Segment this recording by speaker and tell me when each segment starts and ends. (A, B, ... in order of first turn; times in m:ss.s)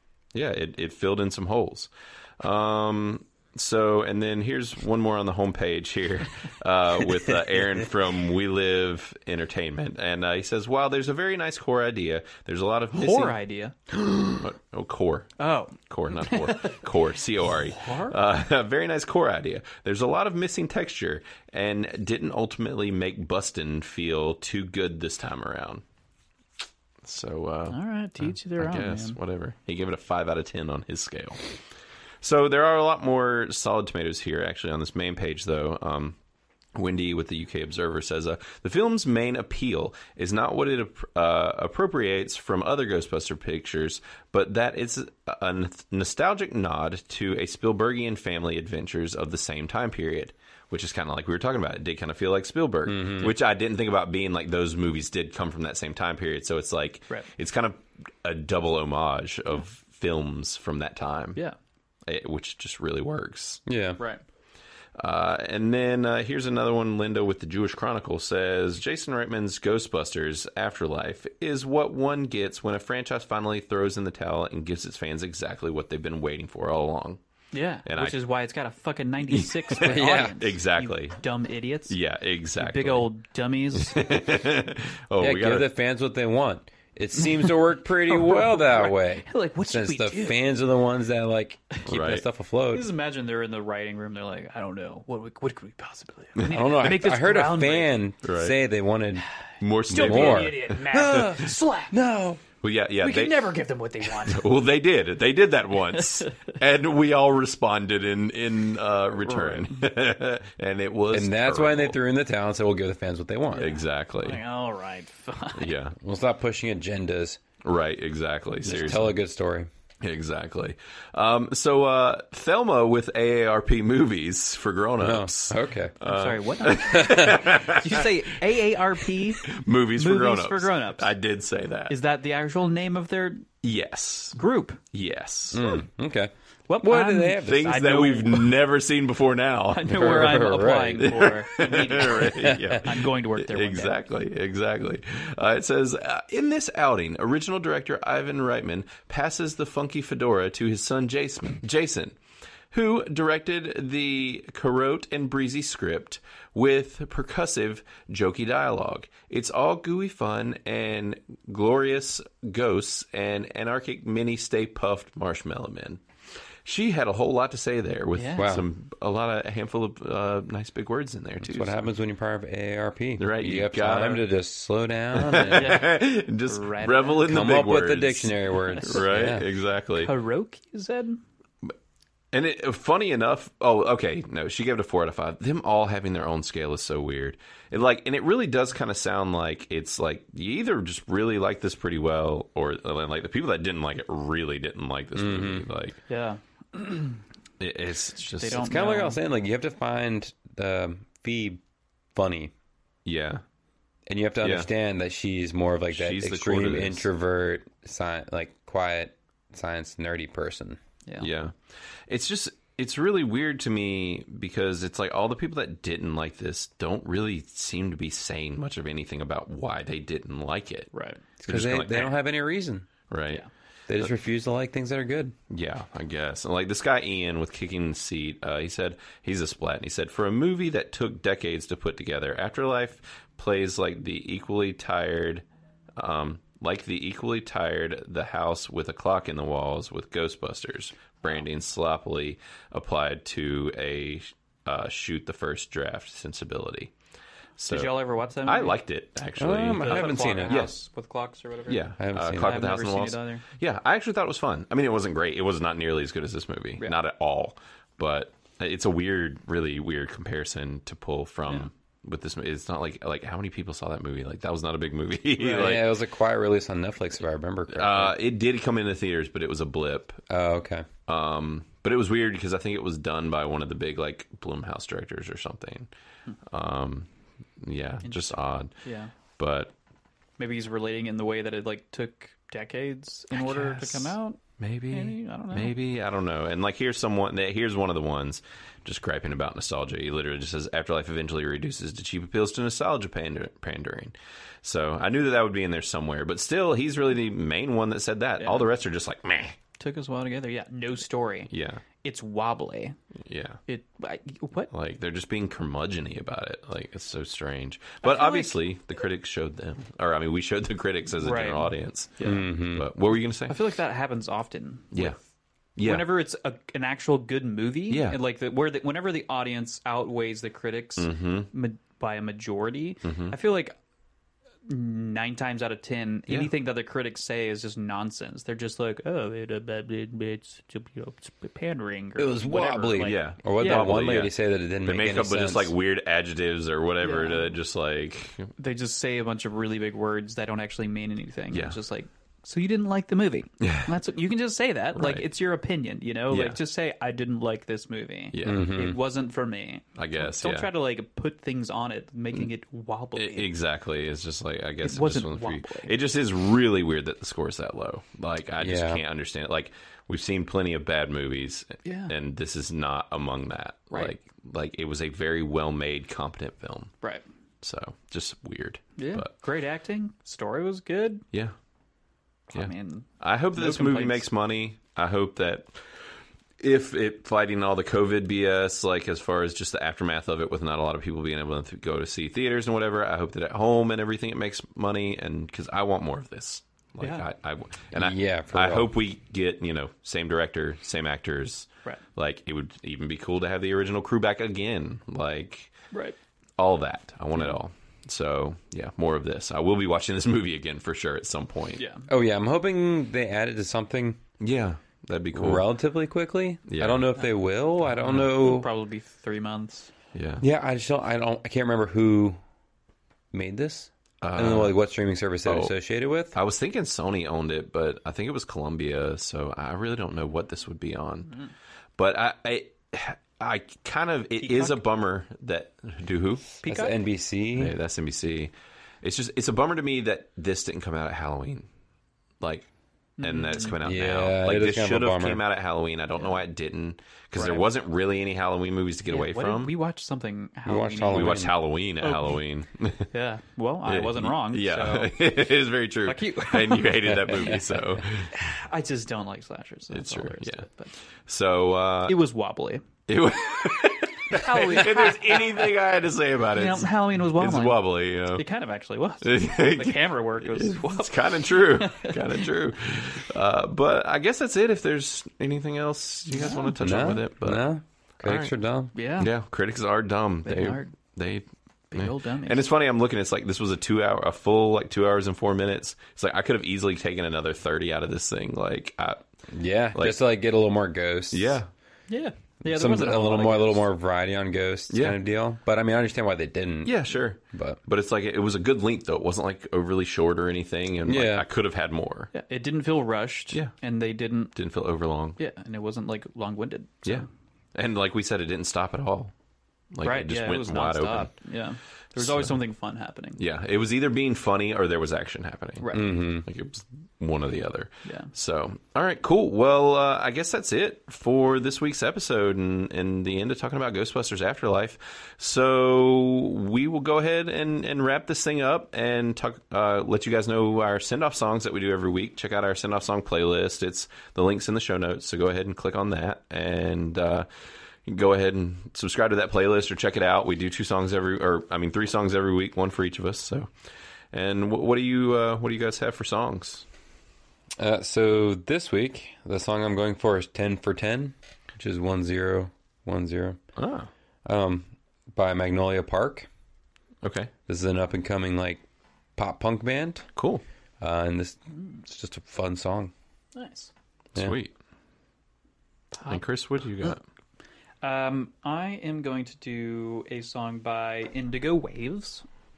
0:00.3-0:13.4 A
0:12.9-0:13.8 B
0:14.4-0:15.3 A
0:15.4-0:16.8 B
0:15.9-0:25.8 A
0:17.5-0:18.2 B
0:27.0-0:31.4 A
0:27.7-0:29.2 B
0:32.2-0:36.2 A
0:36.8-1:01.4 A
0:52.9-0:53.4 C
1:02.1-1:03.6 A
1:03.7-1:04.0 C
1:05.0-1:17.2 A
1:17.5-1:22.0 B
1:17.8-1:18.2 A
1:19.3-1:21.2 A
1:19.8-1:20.4 C
1:21.9-1:23.1 A
1:22.6-1:24.0 B
1:23.7-1:25.7 A
1:25.2-1:32.9 C
1:27.2-1:30.4 B
1:31.9-1:32.2 A
1:32.7-1:38.0 B
1:36.4-1:39.2 C
1:38.2-1:38.6 A
1:39.6-1:41.2 A
1:39.9-1:42.0 B
1:39.9-1:42.4 C
1:42.6-1:52.0 A
1:43.0-1:44.5 B
1:46.0-1:46.3 B
1:49.3-1:49.7 B
1:51.1-1:53.7 C
1:53.5-1:55.7 B
1:53.6-1:54.4 A
1:55.6-1:56.0 A
1:56.0-1:57.4 C
1:57.6-1:59.2 A
1:58.6-1:59.7 C
2:00.0-2:12.0 A
2:05.0-2:05.9 C
2:06.0-2:11.1 B
2:07.0-2:07.3 C
2:11.9-2:13.5 B
2:13.6-2:14.4 A
2:14.4-2:14.8 B
2:14.9-2:15.6 A
2:15.5-2:17.7 C
2:16.7-2:18.6 B
2:17.4-2:20.5 A
2:19.7-2:24.0 B
2:19.9-2:21.2 C
2:21.0-2:32.2 A
2:22.3-2:22.8 C
2:32.7-2:46.0 A
2:46.6-2:51.8 A
2:48.2-2:48.5 B
2:48.4-2:48.6 C
2:51.4-2:55.8 C
2:53.2-2:54.3 A
2:55.1-3:00.1 A
2:55.3-2:57.3 B
2:57.3-2:59.4 C
3:00.0-3:01.2 B
3:02.3-3:16.0 A
3:15.2-3:15.7 C
3:16.1-3:17.2 B
3:17.6-3:18.7 A
3:18.3-3:19.2 B
3:18.5-3:21.6 C
3:22.2-3:22.5 C
3:23.0-3:23.4 A
3:24.1-3:30.8 C
3:24.4-3:24.7 A
3:25.9-3:27.1 A
3:31.2-3:40.9 A
3:40.9-3:41.2 B
3:41.4-3:42.9 C
3:41.5-3:42.2 A
3:43.1-3:43.4 A
3:43.9-3:45.4 C
3:45.5-3:55.5 A
3:56.0-4:06.9 A
4:07.6-4:10.7 A
4:07.7-4:08.8 B
4:09.4-4:10.7 C
4:09.7-4:13.5 B
4:11.7-4:25.9 A
4:12.0-4:12.6 C
4:25.4-4:25.8 B
4:25.4-4:28.2 C
4:27.7-4:30.2 A
4:30.3-4:30.9 C
4:31.1-4:35.9 A
4:36.5-4:37.1 A
4:37.6-4:38.7 A
4:38.8-4:39.1 B
4:39.4-4:39.7 A
4:40.4-4:45.7 B
4:43.3-4:59.6 A
4:58.4-4:58.7 B
4:59.8-5:01.5 B
5:01.5-5:01.8 A
5:02.0-5:03.0 B
5:03.2-5:03.6 A
5:03.7-5:04.7 B
5:04.7-5:13.6 A
5:08.0-5:08.6 B
5:11.2-5:12.5 B
5:12.2-5:12.8 C
5:13.5-5:15.2 B
5:15.8-5:16.2 A
5:15.8-5:23.8 B
5:17.9-5:18.2 A
5:21.0-5:21.5 A
5:23.0-5:23.4 A
5:24.7-5:34.0 B
5:26.3-5:26.5 A
5:32.2-5:35.7 C
5:33.0-5:38.5 A
5:37.0-5:37.5 B
5:38.6-5:53.5 B
5:41.5-5:41.8 A
5:43.6-5:43.9 A
5:44.9-5:45.3 A
5:46.3-5:46.6 A
5:48.3-5:48.8 A
5:48.4-5:49.0 C
5:50.0-5:50.7 A
5:53.2-6:06.9 A
5:54.8-5:55.9 B
5:58.6-5:59.0 C
6:01.8-6:02.1 B
6:07.6-6:09.3 A
6:09.0-6:11.2 B
6:12.5-6:14.3 B
6:12.5-6:15.9 A
6:16.6-6:35.7 A
6:28.0-6:28.9 C
6:35.9-6:36.2 B
6:36.6-6:41.8 A
6:41.8-6:42.1 B
6:42.1-6:44.2 C
6:44.4-6:45.7 A
6:45.3-6:48.7 C
6:46.7-6:47.1 A
6:47.9-6:49.9 B
6:48.0-6:48.3 A
6:50.1-6:50.4 A
6:50.4-6:52.4 C
6:53.3-6:56.4 C
6:54.2-6:54.8 A
6:55.4-6:55.7 A
6:56.3-7:01.4 A
7:02.0-7:06.5 A
7:04.4-7:04.8 B
7:06.6-7:06.9 B
7:06.7-7:07.8 C
7:07.6-7:11.7 A
7:12.4-7:12.7 A
7:13.2-7:13.8 B
7:13.2-7:19.7 A
7:13.8-7:15.4 C
7:17.4-7:17.7 B
7:19.1-7:21.5 B
7:20.7-7:21.5 C
7:21.1-7:23.1 A
7:22.0-7:22.4 B
7:23.1-7:25.1 B
7:23.9-7:28.3 A
7:26.1-7:27.7 B
7:28.3-7:30.9 B
7:29.9-7:30.7 A
7:31.3-7:32.2 A
7:32.1-7:32.8 B
7:33.1-7:38.5 A
7:34.3-7:35.7 B
7:36.5-7:42.3 B
7:39.2-7:47.6 A
7:46.3-7:46.8 B
7:46.8-7:48.9 C
7:48.2-7:48.5 A
7:49.0-7:49.3 B
7:49.2-7:59.2 A
7:50.4-7:50.9 B
7:51.9-7:52.6 B
7:59.5-8:01.6 C
8:01.3-8:01.7 A
8:02.1-8:03.8 B
8:02.7-8:07.8 C
8:04.9-8:05.2 A
8:06.8-8:12.3 A
8:11.1-8:11.5 C
8:12.3-8:14.5 B
8:14.6-8:15.4 A
8:15.4-8:17.3 B
8:17.0-8:19.3 A
8:19.9-8:21.3 A
8:20.0-8:23.4 B
8:22.2-8:22.6 A
8:23.4-8:47.5 A
8:25.8-8:26.2 B
8:25.9-8:26.5 C
8:28.0-8:28.3 B
8:48.0-8:53.7 A
8:54.3-8:56.9 A
8:57.8-9:03.6 C
9:03.8-9:04.1 A
9:04.5-9:06.5 C
9:07.2-9:07.5 A
9:07.7-9:08.8 C
9:09.4-9:10.3 C
9:10.4-9:10.6 A
9:11.0-9:13.1 C
9:13.6-9:13.9 B
9:14.4-9:14.7 A
9:16.1-9:16.4 B
9:16.3-9:17.2 A
9:18.0-9:22.4 B